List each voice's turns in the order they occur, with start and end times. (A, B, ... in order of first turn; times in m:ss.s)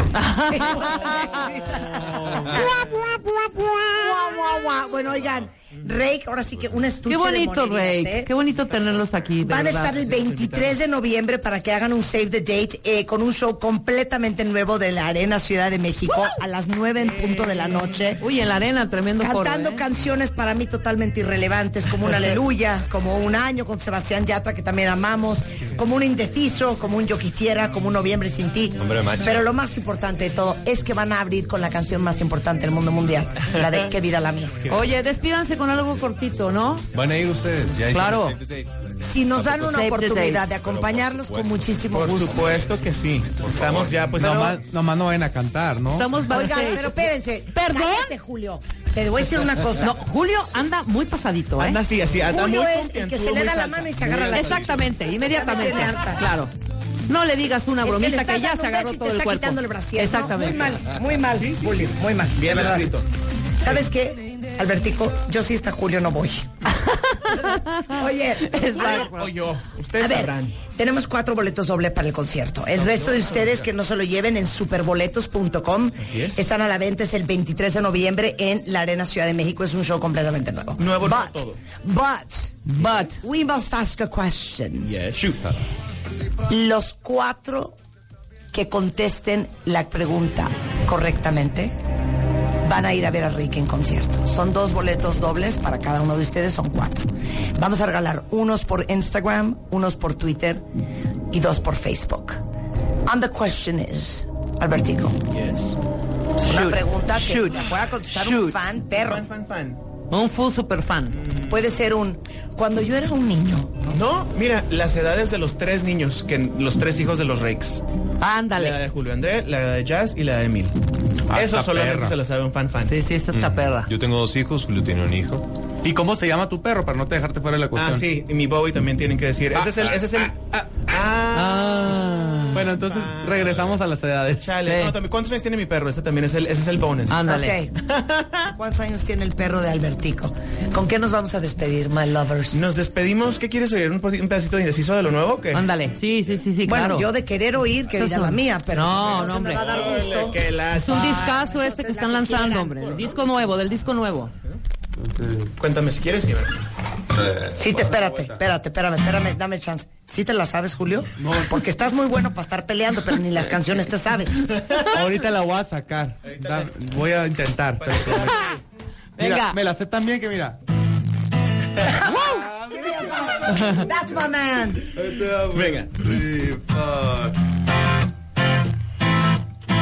0:00.1-0:01.5 A
0:00.4-0:03.0 B
0:02.4-0:04.0 A
0:03.7-0:08.3 B
0:07.1-0:10.0 A
0:09.4-0:18.2 B
0:09.9-0:10.7 C
0:17.1-0:18.1 C
0:18.2-0:19.8 A
0:19.2-0:34.6 B
0:28.8-0:29.4 D
0:34.7-0:36.8 A
0:36.9-0:39.9 D
0:37.9-0:38.4 A
0:39.0-0:42.5 B
0:39.6-0:40.4 A
0:40.5-0:42.8 D
0:41.9-0:44.6 C
0:43.4-0:44.3 D
0:44.2-0:46.1 E
0:46.0-0:48.1 A
0:46.3-0:50.0 B
0:49.8-0:51.8 A
0:51.6-0:54.8 C
0:52.3-0:56.2 B
0:54.3-0:56.5 A
0:57.1-1:00.8 A
0:57.8-1:03.0 B
1:01.3-1:03.1 C
1:03.6-1:06.5 B
1:06.7-1:09.3 A
1:07.9-1:09.1 B
1:08.8-1:10.6 C
1:10.0-1:24.9 B
1:12.8-1:13.6 C
1:16.0-1:16.4 C
1:20.8-1:21.6 C
1:22.7-1:23.2 A
1:24.8-1:25.6 C
1:26.5-1:27.8 B
1:28.5-1:31.8 B
1:32.6-1:40.6 B
1:41.3-1:42.4 B
1:43.0-1:45.3 B
1:45.3-1:45.8 C
1:46.4-1:48.6 A
1:46.4-1:49.3 B
1:48.9-1:49.8 C
1:50.1-1:51.2 A
1:51.1-1:51.7 C
1:51.5-1:54.0 B
1:53.9-1:57.8 C
1:58.2-1:58.8 A
1:58.6-2:00.8 C
2:01.3-2:02.2 E
2:01.3-2:03.0 C
2:02.8-2:03.9 A
2:03.4-2:05.5 D
2:05.8-2:08.0 E
2:07.8-2:12.0 C
2:09.8-2:10.1 E
2:11.3-2:12.6 A
2:12.5-2:14.7 E
2:12.8-2:13.6 C
2:14.4-2:17.2 C
2:14.6-2:15.0 A
2:17.1-2:17.6 A
2:17.2-2:17.8 B
2:17.8-2:18.5 C
2:18.5-2:22.7 B
2:22.5-2:25.7 C
2:25.5-2:27.1 A
2:26.6-2:32.8 B
2:27.9-2:30.0 A
2:29.5-2:31.2 C
2:30.7-2:34.3 A
2:32.7-2:33.2 C
2:35.1-2:35.5 E
2:35.6-2:36.5 C
2:37.2-2:37.6 D
2:37.6-2:44.7 B
2:41.2-2:41.6 E
2:44.8-2:48.6 E
2:46.2-2:46.8 C
2:47.8-2:48.6 C
2:49.2-2:49.6 A
2:49.2-2:50.6 E
2:51.8-2:54.9 B
2:52.9-2:53.2 C
2:53.5-2:53.8 A
2:55.0-2:57.1 E
2:55.5-2:56.1 C